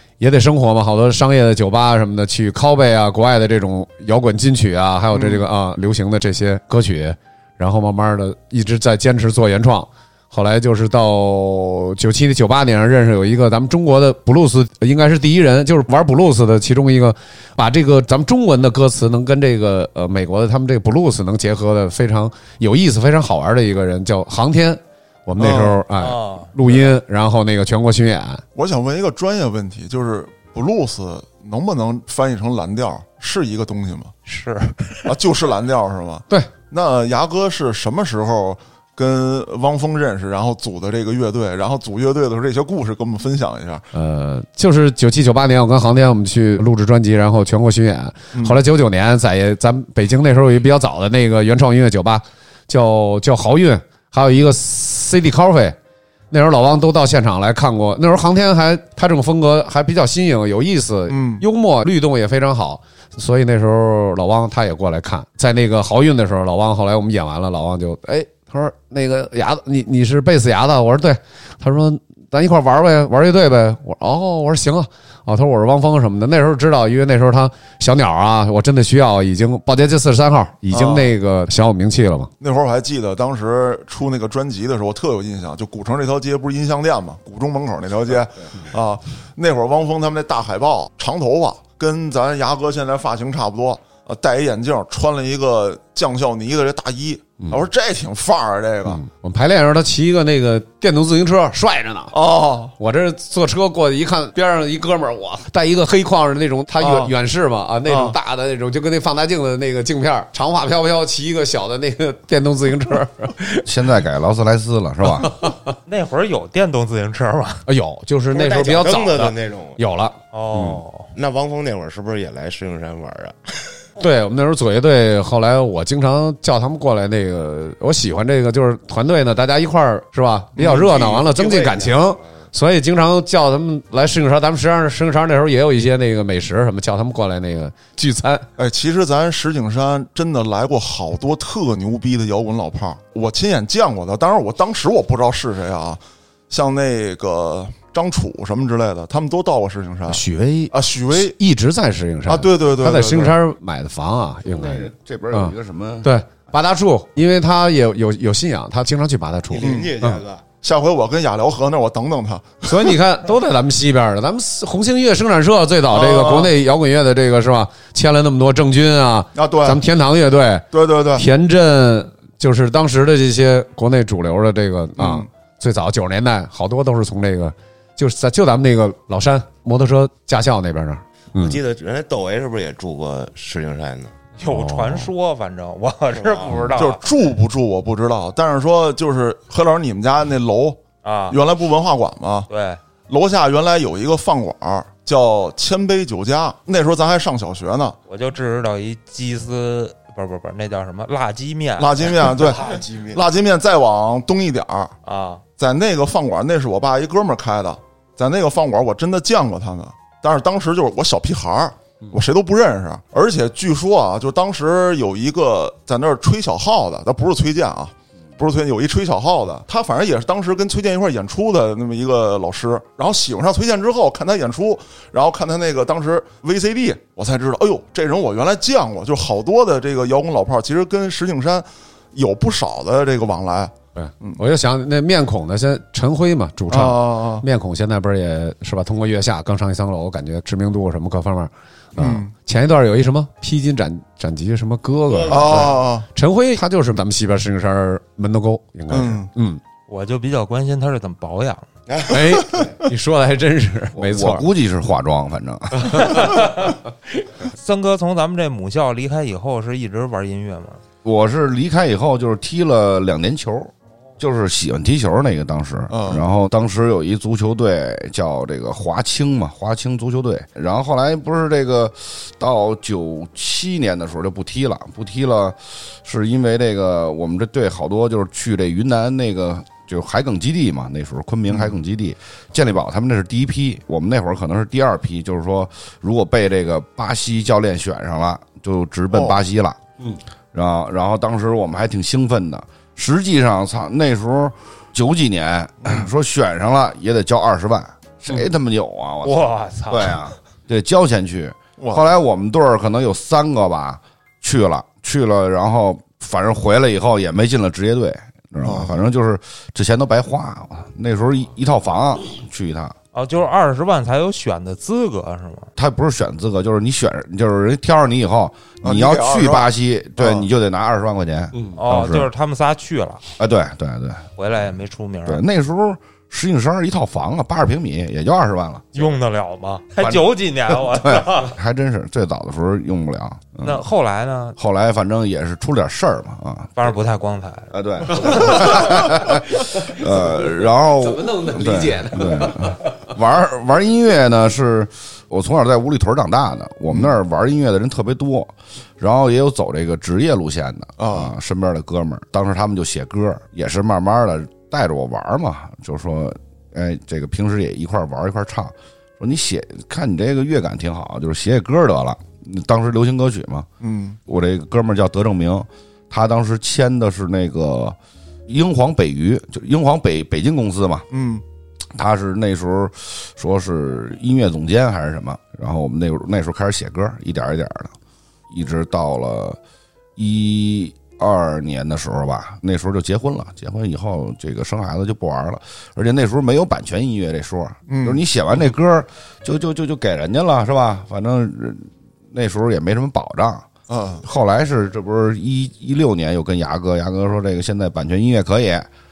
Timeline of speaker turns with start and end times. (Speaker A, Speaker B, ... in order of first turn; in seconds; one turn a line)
Speaker A: 0.2-28.4
Speaker B: 5.1-5.4
Speaker B: 25.4-25.8
Speaker C: 26.0-26.8
Speaker B: 28.5-34.1
Speaker C: 34.3-35.1
Speaker B: 35.0-43.9
Speaker A: 43.9-55.7
Speaker B: 48.3-48.6
Speaker A: 56.3-82.3
Speaker B: 61.1-61.4
Speaker B: 80.7-81.1
Speaker B: 82.4-99.0
Speaker A: 97.4-97.7
Speaker A: 98.8-102.1
Speaker B: 102.1-102.7
Speaker A: 102.8-113.6
Speaker B: 106.8-107.1
Speaker B: 107.9-108.1
Speaker D: 113.7-115.3
Speaker A: 115.2-115.5
Speaker C: 115.9-117.6
Speaker A: 117.7-120.8
Speaker E: 118.3-119.8
Speaker C: 120.3-121.1
Speaker E: 121.1-123.7
Speaker A: 124.0-138.4
Speaker B: 130.6-131.2
Speaker E: 131.2-132.1
Speaker B: 138.6-151.3
Speaker A: 150.1-160.2
Speaker B: 152.3-153.4
Speaker D: 154.4-156.1
Speaker E: 159.5-160.4
Speaker B: 159.6-159.9
Speaker B: 160.6-162.9
Speaker A: 162.6-181.6
Speaker B: 165.9-166.5
Speaker B: 169.3-169.8
Speaker B: 170.7-171.2
Speaker B: 175.0-175.3
Speaker E: 181.3-184.2
Speaker C: 184.4-187.0
Speaker A: 184.5-185.1
Speaker E: 186.1-186.7
Speaker B: 186.8-190.8
Speaker C: 191.0-191.4
Speaker B: 191.3-192.5
Speaker C: 192.5-192.8
Speaker B: 193.1-198.0
Speaker C: 198.1-202.2
Speaker B: 201.8-204.9
Speaker E: 202.2-203.2
Speaker C: 205.0-205.4
Speaker B: 205.6-234.4
Speaker A: 233.9-249.6
Speaker B: 236.7-237.4
Speaker B: 242.0-242.3
Speaker E: 245.1-245.8
Speaker B: 245.3-246.1
Speaker B: 248.9-249.3
Speaker C: 249.9-251.7
Speaker E: 251.9-252.7
Speaker A: 252.1-254.4
Speaker D: 253.9-256.1
Speaker C: 257.4-260.8
Speaker D: 261.0-289.8
Speaker B: 265.9-266.2
Speaker B: 289.1-289.4
Speaker D: 290.5-312.9
Speaker C: 299.2-300.2
Speaker B: 301.8-302.1
Speaker B: 308.6-308.9
Speaker C: 313.1-315.7
Speaker D: 315.8-322.3
Speaker B: 318.8-320.4
Speaker A: 321.5-321.8
Speaker C: 321.8-323.2
Speaker D: 323.4-324.2
Speaker C: 324.4-325.4
Speaker D: 325.2-329.1
Speaker C: 328.9-331.5
Speaker D: 330.0-333.8
Speaker C: 333.6-334.6
Speaker D: 334.6-336.9
Speaker C: 336.8-338.7
Speaker D: 337.7-363.7
Speaker A: 338.2-338.6
Speaker A: 340.9-342.9
Speaker B: 346.9-347.1
Speaker B: 351.0-351.3
Speaker B: 363.8-364.2
Speaker D: 364.2-371.1
Speaker B: 371.1-371.4
Speaker D: 371.9-377.9
Speaker D: 378.5-379.6
Speaker D: 380.1-393.6
Speaker B: 387.9-388.2
Speaker B: 393.9-394.2
Speaker D: 394.2-398.9